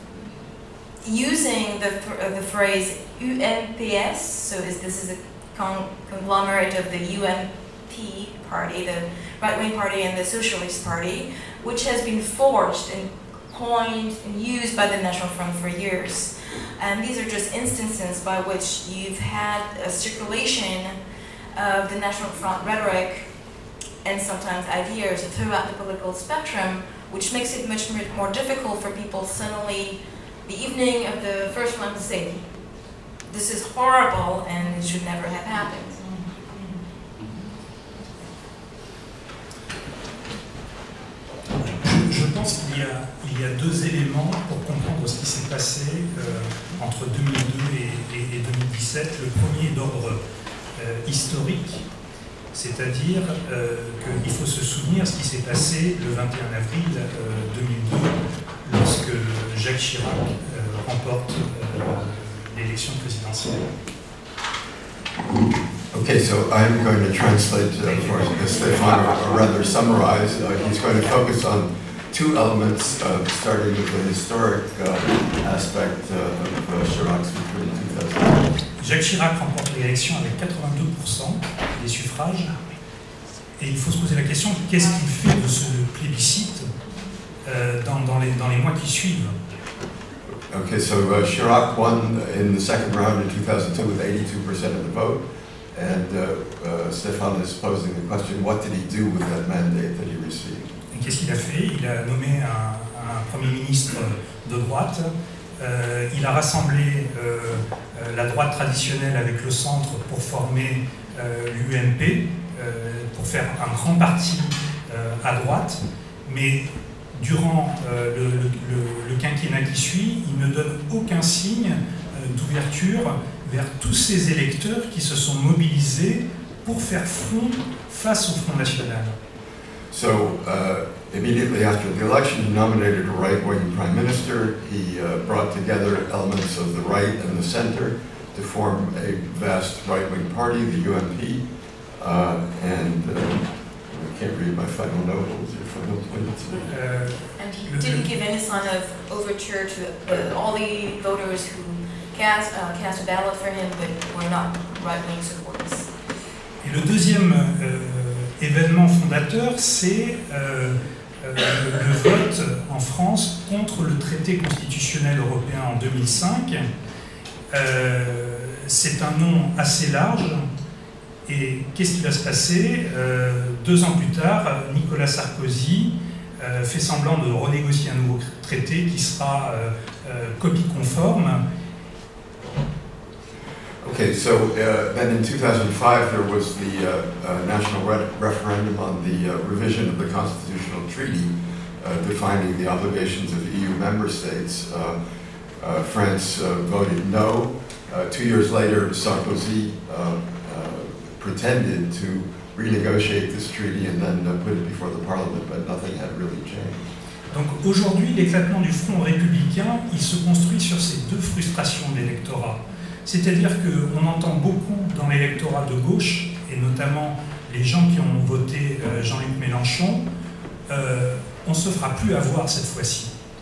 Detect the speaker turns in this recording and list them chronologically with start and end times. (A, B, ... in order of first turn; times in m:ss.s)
0:01.0-0:21.0 A
0:21.5-0:23.3 A
0:24.0-0:32.4 A
0:33.3-0:36.0 A
0:41.5-0:50.2 B
0:50.8-0:51.8 B
0:52.5-1:03.7 B
1:05.9-1:18.5 C
1:18.8-1:22.5 B
1:23.6-1:26.7 B
1:27.4-1:29.3 B
1:30.5-1:35.2 C
1:35.7-1:40.7 C
1:40.9-2:09.1 B
2:09.9-2:21.4 C
2:22.0-2:26.7 C
2:26.7-2:28.1 B
2:27.4-2:35.9 A
2:36.6-2:46.6 B
2:47.5-2:50.4 B
2:51.2-3:01.4 B
3:03.8-3:15.0 C
3:15.6-3:26.8 C
3:27.3-3:40.0 B
3:40.7-3:43.1 B